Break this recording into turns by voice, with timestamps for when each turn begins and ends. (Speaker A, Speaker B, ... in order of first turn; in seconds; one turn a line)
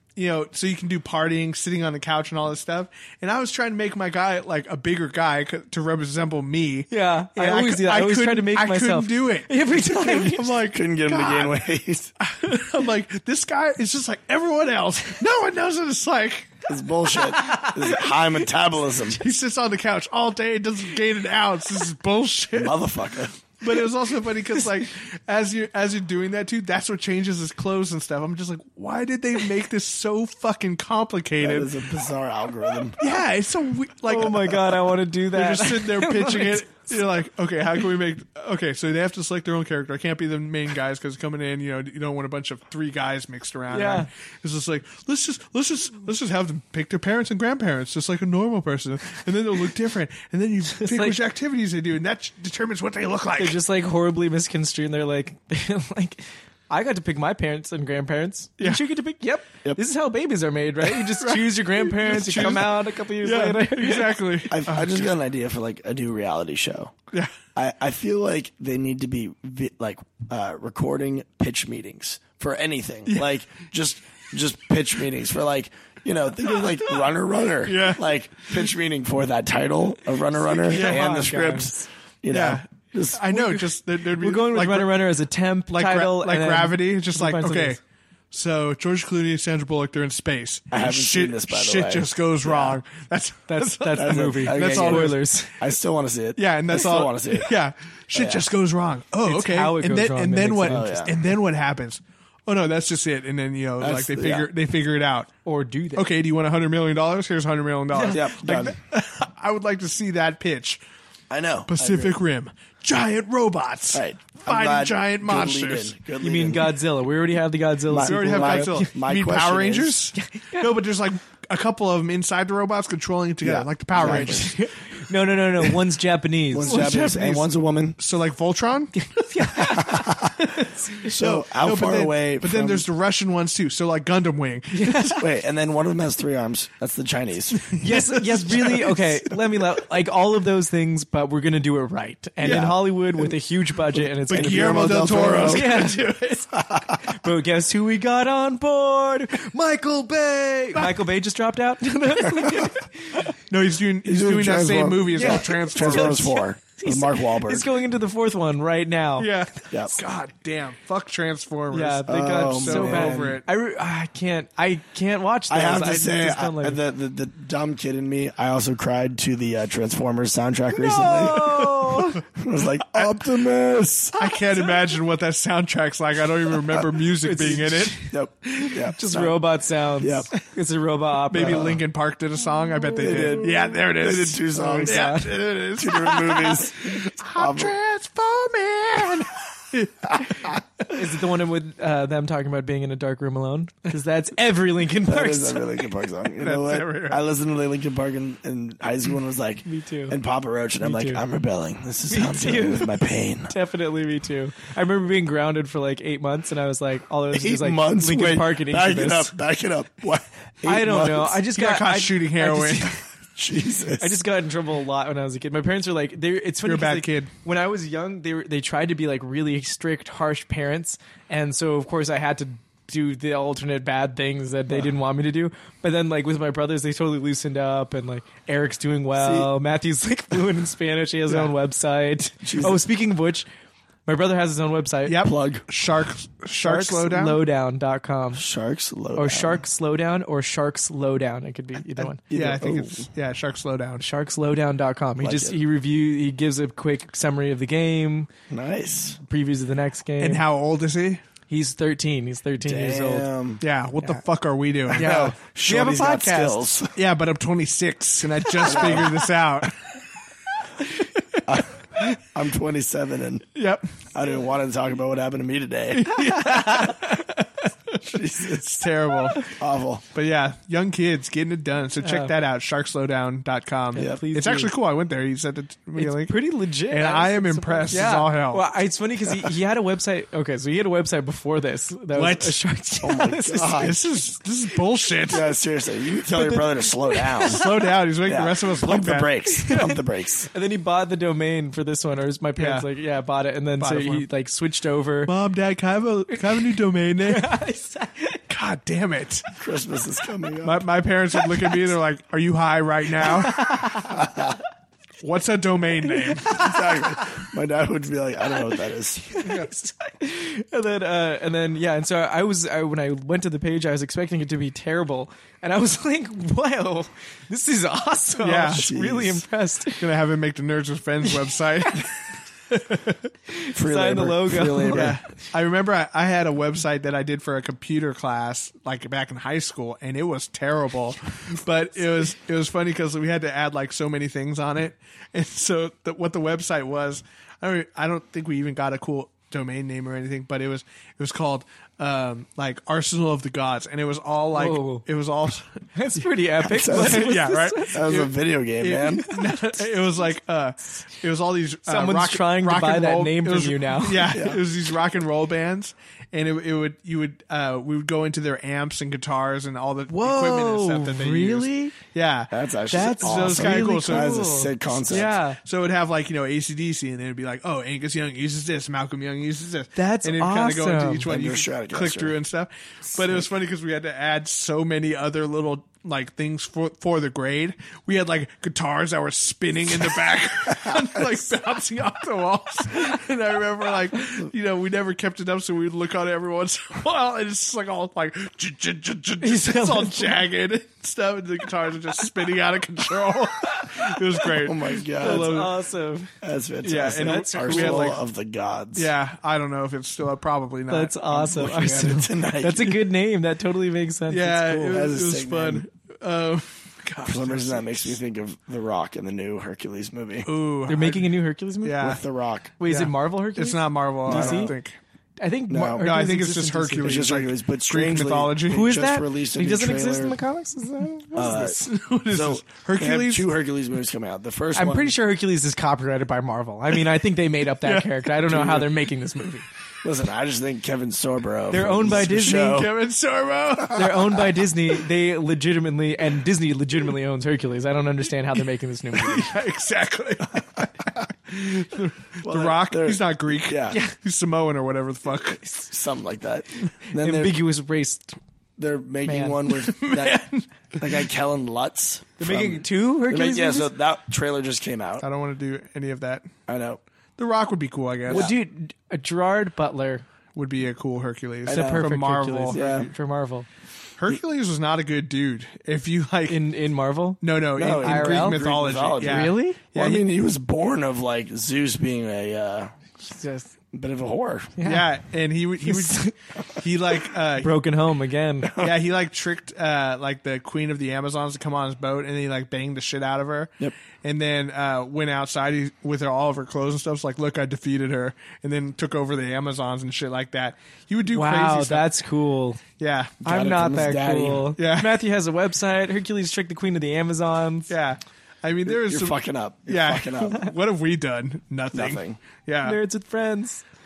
Speaker A: 0.1-11.7
Speaker B: 6.9-10.5
Speaker C: 10.6-12.1
Speaker A: 12.2-16.6
Speaker C: 16.7-19.2
Speaker B: 17.3-18.1
Speaker A: 19.1-22.8
Speaker C: 22.5-23.4
Speaker A: 23.6-31.7
Speaker C: 31.4-33.0
Speaker A: 33.0-34.8
Speaker B: 34.0-36.6
Speaker A: 35.3-53.6
Speaker B: 43.7-44.1
Speaker B: 50.7-51.2
Speaker B: 53.4-64.2
Speaker A: 60.9-65.0
Speaker C: 64.5-66.9
Speaker C: 67.5-83.5
Speaker A: 73.1-73.3
Speaker A: 77.7-78.0
Speaker B: 80.6-81.8
Speaker A: 80.7-81.2
Speaker A: 82.3-85.1
Speaker B: 84.2-87.8
Speaker A: 85.7-87.8
Speaker A: 88.3-95.2
Speaker C: 90.7-92.8
Speaker B: 93.5-95.5
Speaker C: 93.9-97.5
Speaker A: 96.3-105.3
Speaker C: 98.1-98.5
Speaker B: 99.2-101.0
Speaker C: 100.7-101.1
Speaker C: 103.8-104.5
Speaker B: 105.4-106.1
Speaker A: 105.9-110.8
Speaker B: 107.9-108.2
Speaker C: 108.1-108.8
Speaker C: 111.3-112.2
Speaker A: 111.7-116.0
Speaker C: 113.9-116.7
Speaker B: 116.2-118.9
Speaker C: 117.9-120.0
Speaker A: 118.0-124.6
Speaker B: 120.2-120.7
Speaker C: 123.4-124.5
Speaker B: 124.0-127.5
Speaker C: 126.5-128.0
Speaker A: 128.0-129.0
Speaker B: 129.0-131.2
Speaker C: 129.6-130.5
Speaker A: 131.1-135.2
Speaker C: 131.1-132.8
Speaker B: 134.7-135.2
Speaker C: 135.1-137.8
Speaker A: 137.5-139.1
Speaker B: 137.8-153.3
Speaker A: 142.4-142.8
Speaker C: 142.5-142.7
Speaker C: 143.9-145.7
Speaker A: 144.3-146.3
Speaker C: 146.7-147.0
Speaker A: 153.4-156.4
Speaker C: 154.0-157.7
Speaker B: 155.1-159.3
Speaker A: 159.2-163.4
Speaker C: 159.7-160.0
Speaker B: 161.7-166.8
Speaker C: 162.1-163.4
Speaker C: 165.5-174.3
Speaker B: 170.7-172.2
Speaker A: 172.8-173.2
Speaker A: 174.2-178.1
Speaker B: 177.2-181.8
Speaker C: 178.1-179.4
Speaker C: 180.0-180.3
Speaker A: 181.3-190.6
Speaker C: 181.4-181.8
Speaker C: 183.0-185.2
Speaker B: 184.5-185.3
Speaker C: 185.8-187.7
Speaker B: 190.9-195.6
Speaker C: 195.0-203.5
Speaker A: 196.4-197.2
Speaker B: 199.6-200.2
Speaker B: 200.8-201.2
Speaker B: 202.1-209.3
Speaker C: 207.3-211.4
Speaker B: 210.6-213.0
Speaker A: 211.5-212.9
Speaker C: 213.3-214.2
Speaker B: 214.0-233.5
Speaker A: 216.7-217.3
Speaker C: 229.2-229.5
Speaker A: 231.3-231.5
Speaker C: 232.4-232.8
Speaker B: 234.1-235.2
Speaker A: 235.1-237.4
Speaker C: 235.2-235.6
Speaker B: 236.6-238.4
Speaker C: 238.3-239.6
Speaker B: 239.1-242.2
Speaker A: 242.3-244.0
Speaker C: 242.3-243.1
Speaker B: 244.0-248.3
Speaker C: 245.2-245.6
Speaker C: 248.5-249.2
Speaker B: 249.2-250.4
Speaker A: 250.2-251.2
Speaker B: 251.5-253.3
Speaker C: 252.6-253.6
Speaker A: 253.6-259.8
Speaker C: 254.9-256.9
Speaker B: 254.9-256.5
Speaker C: 258.6-259.2
Speaker C: 261.5-263.5
Speaker A: 263.6-263.9
Speaker C: 264.1-266.1
Speaker A: 266.0-269.4
Speaker B: 266.1-267.1
Speaker C: 268.1-268.6
Speaker C: 269.5-270.0
Speaker A: 270.1-278.6
Speaker B: 272.0-272.3
Speaker B: 273.9-274.7
Speaker C: 274.0-274.2
Speaker B: 276.0-283.9
Speaker A: 282.1-282.6
Speaker C: 283.0-284.0
Speaker A: 283.8-285.5
Speaker C: 285.3-287.7
Speaker B: 286.2-287.8
Speaker A: 287.5-289.3
Speaker C: 288.2-290.5
Speaker B: 289.5-295.3
Speaker A: 292.6-292.9
Speaker A: 293.8-294.3
Speaker A: 295.2-297.5
Speaker B: 296.3-298.4
Speaker A: 298.5-299.5
Speaker C: 299.6-300.8
Speaker A: 300.6-304.0
Speaker B: 301.4-301.8
Speaker B: 303.2-304.5
Speaker C: 304.2-304.5
Speaker A: 305.2-306.7
Speaker B: 306.1-307.4
Speaker C: 306.5-309.4
Speaker B: 309.3-320.1
Speaker A: 318.4-318.9
Speaker C: 318.7-319.4
Speaker A: 320.0-322.1
Speaker A: 322.7-323.2
Speaker B: 323.5-325.2
Speaker C: 323.7-325.2
Speaker A: 324.9-345.9
Speaker B: 344.5-345.0
Speaker B: 346.0-348.1
Speaker C: 346.6-349.3
Speaker A: 346.8-364.4
Speaker B: 351.9-354.4
Speaker C: 354.3-354.6
Speaker B: 360.1-361.9
Speaker C: 362.5-365.4
Speaker B: 362.9-365.6
Speaker A: 365.6-395.7
Speaker B: 370.0-371.3
Speaker C: 371.2-372.3
Speaker B: 389.4-390.4
Speaker C: 394.6-395.6
Speaker B: 395.2-396.3
Speaker C: 396.4-399.1
Speaker A: 396.8-398.2
Speaker B: 397.1-398.1
Speaker A: 398.9-401.2
Speaker B: 400.9-405.0
Speaker C: 401.3-403.0
Speaker A: 404.3-408.2
Speaker C: 404.9-405.9
Speaker C: 407.2-410.5
Speaker A: 410.5-412.2
Speaker B: 410.9-412.1
Speaker C: 412.0-412.7
Speaker B: 412.8-414.7
Speaker A: 412.9-415.0
Speaker C: 414.2-414.8
Speaker B: 415.4-417.3
Speaker C: 415.7-416.0
Speaker A: 416.0-418.9
Speaker C: 417.0-420.4
Speaker B: 418.7-421.7
Speaker C: 421.4-425.1
Speaker A: 421.4-423.5
Speaker B: 424.7-429.6
Speaker A: 427.8-428.1
Speaker C: 428.5-428.9
Speaker C: 430.0-432.9
Speaker B: 431.7-432.9
Speaker A: 432.3-434.5
Speaker B: 433.9-439.5
Speaker A: 439.1-445.6
Speaker C: 442.4-444.0
Speaker C: 445.4-447.6
Speaker B: 447.1-448.4
Speaker C: 448.8-450.4
Speaker B: 449.2-449.6
Speaker A: 449.7-451.1
Speaker C: 451.0-455.2
Speaker B: 452.4-453.9
Speaker A: 455.2-456.5
Speaker C: 456.7-457.0
Speaker A: 457.4-458.5
Speaker C: 458.3-458.5
Speaker B: 458.3-460.2
Speaker A: 460.5-462.8
Speaker C: 461.6-462.1
Speaker B: 461.7-463.7
Speaker C: 462.7-463.1
Speaker A: 464.2-466.6
Speaker B: 466.5-468.7
Speaker A: 467.4-470.3
Speaker C: 467.8-472.9
Speaker B: 469.2-469.8
Speaker B: 473.2-473.8
Speaker C: 473.9-474.8
Speaker B: 474.8-475.1
Speaker A: 474.8-477.8
Speaker B: 475.8-476.3
Speaker B: 477.5-478.8
Speaker C: 478.6-478.9
Speaker A: 478.8-492.1
Speaker B: 491.3-492.8
Speaker A: 493.0-493.4
Speaker C: 493.4-494.7
Speaker B: 493.4-497.9
Speaker A: 494.8-495.1
Speaker A: 497.9-503.0
Speaker C: 498.9-500.6
Speaker C: 501.9-502.4
Speaker B: 502.8-503.8